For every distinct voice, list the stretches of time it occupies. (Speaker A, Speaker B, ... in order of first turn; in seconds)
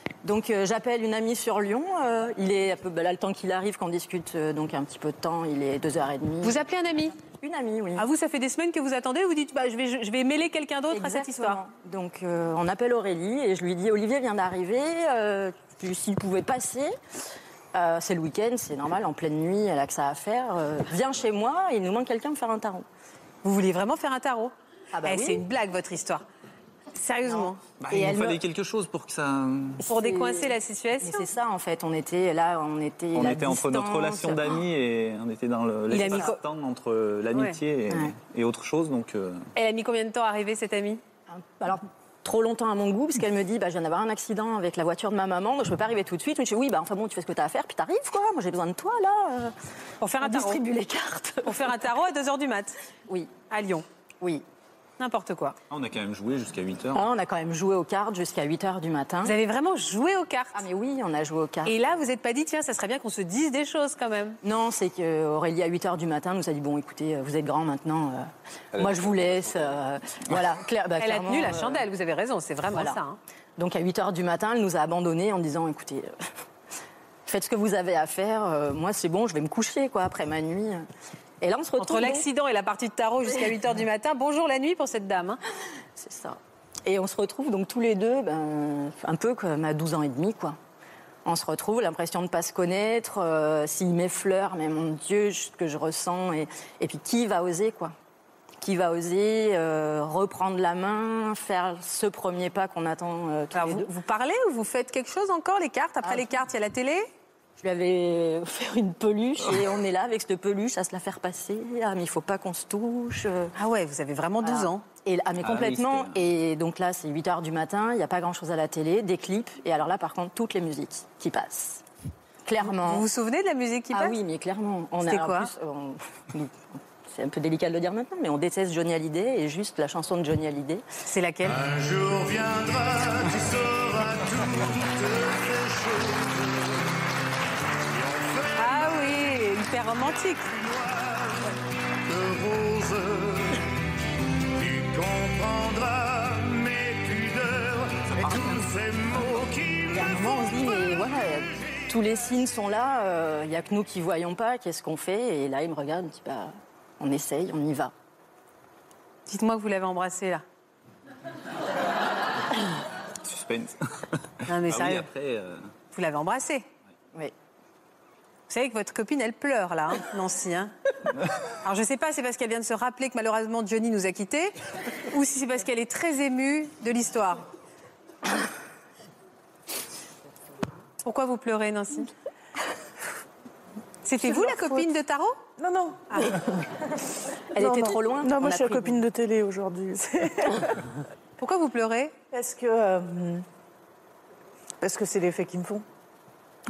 Speaker A: 0.2-6.6, 7.2-8.1, 10.9-16.9, 17.7-22.9, 24.9-25.4, 27.9-28.4, 29.8-34.6, 37.9-38.1, 41.3-49.5, 50.2-51.7, 56.9-59.4, 60.5-61.7, 64.4-71.8, 72.7-73.0, 73.6-76.1, 77.2-80.8, 81.4-82.2, 86.0-90.6, 91.2-97.9, 98.6-103.9, 106.0-106.3, 107.6-113.5, 114.4-121.8, 122.5-123.0, 123.9-130.8, 149.9-157.9, 187.5-189.0
Speaker B: 6.4-7.1, 8.0-11.6, 23.4-26.2, 26.9-27.6, 29.9-31.3, 35.9-36.4, 39.5-41.0, 50.0-50.6, 51.4-52.8, 53.5-53.8, 55.0-55.6, 59.2-60.6, 61.6-64.4, 71.0-73.2, 81.8-85.4, 103.5-107.1, 113.5-114.8, 122.6-124.2, 125.0-125.5, 131.1-131.6, 138.6-140.5, 159.3-160.4, 164.5-165.1, 165.9-166.7, 168.5-170.7, 171.6-174.6, 175.1-177.5, 181.0-182.1, 184.0-185.4, 191.4-192.1
Speaker C: 27.8-29.8, 33.1-39.5, 55.7-57.0, 115.4-116.2, 148.2-148.7, 163.2-165.7
Speaker D: 131.4-136.9, 137.9-139.1, 140.6-141.5, 142.1-143.6, 144.6-150.6
Speaker E: 184.2-184.8, 185.6-186.7, 187.5-190.9, 192.3-193.4, 194.8-195.8